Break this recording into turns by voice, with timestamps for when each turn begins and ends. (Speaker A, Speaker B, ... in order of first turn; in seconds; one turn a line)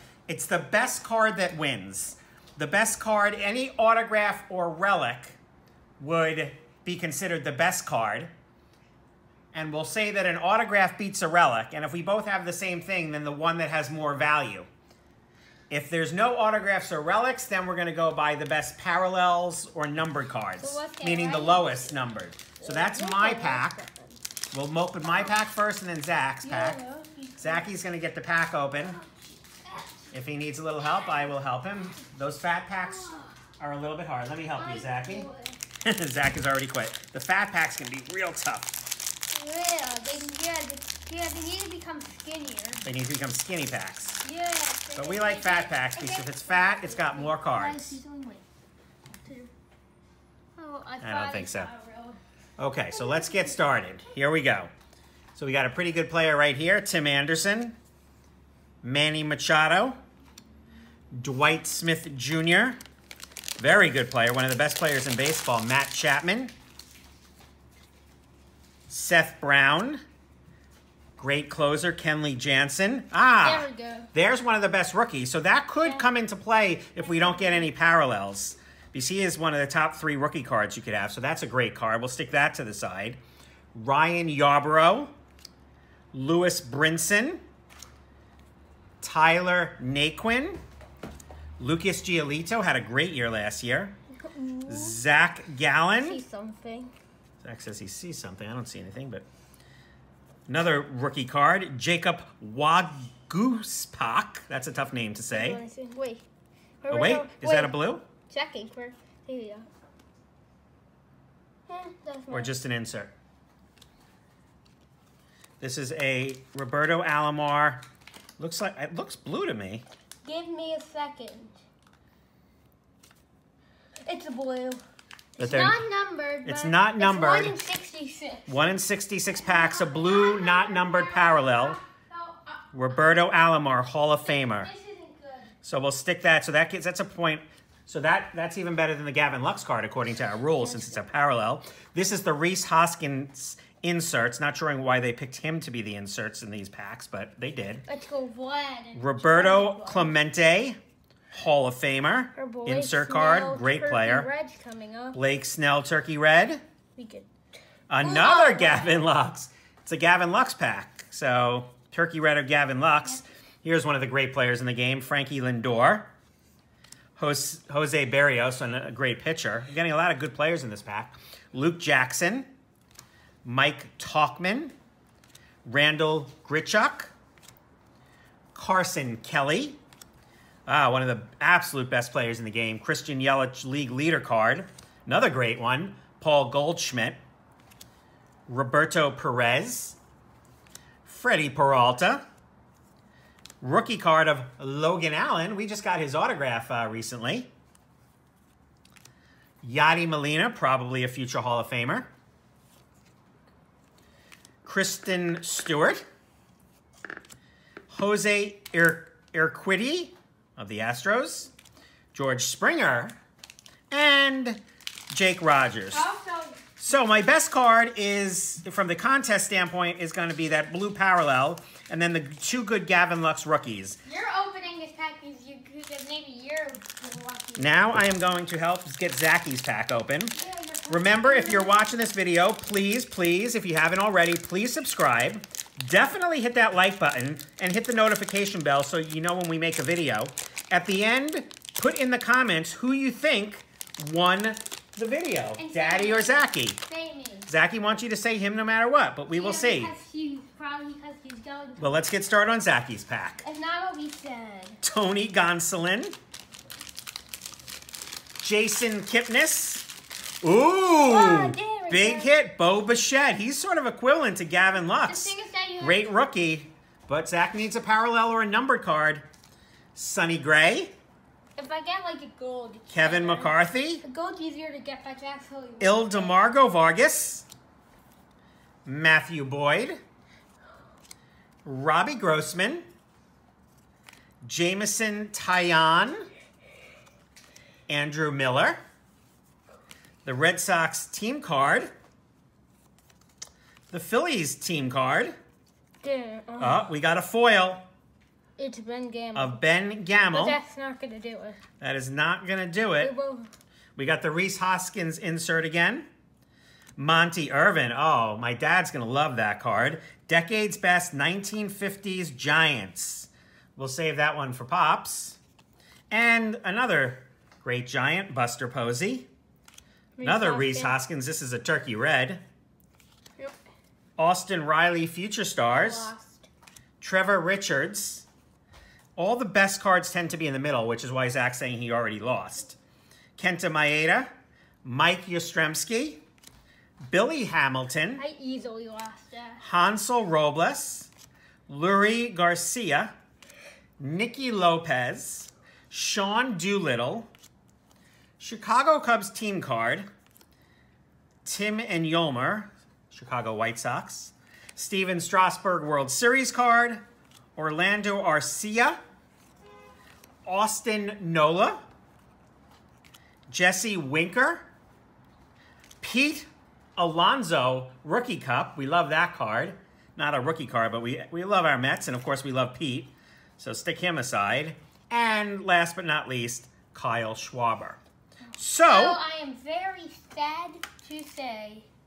Speaker A: 0.3-5.4
Speaker A: 6.0-8.3
Speaker A: 9.5-14.7
Speaker A: 15.7-23.8
Speaker B: 20.6-21.9
Speaker B: 22.6-24.2
Speaker A: 24.5-26.8
Speaker B: 26.4-27.7
Speaker A: 27.4-29.0
Speaker B: 28.9-30.1
Speaker A: 30.1-35.3
Speaker B: 32.8-33.3
Speaker B: 34.6-35.6
Speaker A: 35.8-38.8
Speaker B: 39.3-42.8
Speaker A: 42.8-44.2
Speaker B: 44.2-48.4
Speaker A: 45.0-48.0
Speaker B: 49.2-49.5
Speaker B: 50.6-52.2
Speaker A: 51.0-51.7
Speaker A: 52.6-54.7
Speaker B: 52.9-53.8
Speaker A: 55.3-57.8
Speaker A: 58.8-60.0
Speaker A: 61.1-62.8
Speaker A: 63.6-66.5
Speaker A: 68.9-70.0
Speaker A: 71.2-83.2
Speaker B: 73.4-74.1
Speaker B: 77.0-77.7
Speaker A: 83.7-85.1
Speaker A: 86.1-87.4
Speaker A: 89.0-90.6
Speaker A: 91.6-93.9
Speaker B: 94.2-95.0
Speaker A: 94.7-96.2
Speaker B: 96.0-96.9
Speaker A: 97.4-99.2
Speaker A: 100.5-105.6
Speaker B: 105.3-106.2
Speaker B: 106.8-107.8
Speaker A: 106.9-108.1
Speaker B: 108.3-109.7
Speaker B: 111.7-112.5
Speaker A: 112.3-113.1
Speaker A: 115.6-117.8
Speaker A: 118.4-119.8
Speaker B: 120.2-121.6
Speaker B: 124.0-124.8
Speaker B: 125.4-128.7
Speaker A: 125.4-125.8
Speaker A: 126.4-127.6
Speaker A: 128.5-131.8
Speaker B: 129.3-132.7
Speaker A: 132.7-134.7
Speaker B: 134.2-135.5
Speaker A: 135.6-147.8
Speaker B: 140.6-141.0
Speaker B: 147.8-150.2
Speaker A: 148.9-150.8
Speaker A: 151.3-154.3
Speaker B: 152.3-155.2
Speaker A: 155.1-156.6
Speaker B: 157.0-157.3
Speaker A: 157.9-166.1
Speaker B: 158.0-159.0
Speaker A: 167.2-172.5
Speaker A: 173.4-174.7
Speaker A: 175.7-177.1
Speaker A: 178.5-179.8
Speaker A: 180.7-187.2
Speaker A: 188.5-190.0
Speaker A: 191.0-192.2
Speaker A: 193.6-197.5
Speaker A: 199.6-202.1
Speaker A: 204.6-206.0
Speaker A: 207.9-211.5
Speaker A: 212.1-213.2
Speaker A: 213.9-216.0
Speaker B: 215.9-216.6
Speaker A: 216.8-224.0
Speaker B: 224.0-228.3
Speaker A: 227.6-230.3
Speaker B: 230.3-231.8
Speaker A: 230.9-246.8
Speaker B: 245.6-247.5
Speaker A: 247.4-249.9
Speaker B: 249.3-252.0
Speaker A: 251.8-253.4
Speaker B: 253.4-254.8
Speaker A: 254.8-256.1
Speaker A: 258.4-259.9
Speaker A: 260.4-269.2
Speaker B: 261.1-262.3
Speaker B: 265.0-266.1
Speaker A: 269.9-270.9
Speaker B: 271.6-276.4
Speaker A: 272.9-274.0
Speaker A: 275.8-277.4
Speaker A: 278.9-280.0
Speaker A: 281.6-282.9
Speaker A: 284.4-286.2
Speaker A: 287.9-288.8
Speaker A: 290.2-291.9
Speaker A: 293.9-295.4
Speaker B: 296.0-296.9
Speaker A: 296.6-297.9
Speaker B: 298.6-299.6
Speaker A: 299.4-300.6
Speaker B: 300.3-301.6
Speaker A: 301.8-303.1
Speaker B: 303.0-303.5
Speaker A: 303.9-306.1
Speaker A: 307.0-315.4
Speaker A: 316.1-319.3
Speaker B: 320.2-320.9
Speaker A: 320.2-322.4
Speaker A: 324.2-326.1
Speaker B: 325.7-326.5
Speaker A: 327.0-328.2
Speaker A: 329.2-332.8
Speaker A: 333.4-334.3
Speaker A: 334.8-336.2
Speaker A: 337.1-338.2
Speaker B: 338.2-339.6
Speaker A: 339.6-341.1
Speaker A: 341.7-343.1
Speaker A: 344.0-347.3
Speaker A: 348.4-350.1
Speaker A: 351.4-357.0
Speaker A: 357.6-359.0
Speaker A: 360.4-361.8
Speaker A: 363.5-364.6
Speaker A: 366.0-378.0
Speaker A: 378.6-379.2
Speaker B: 378.8-381.9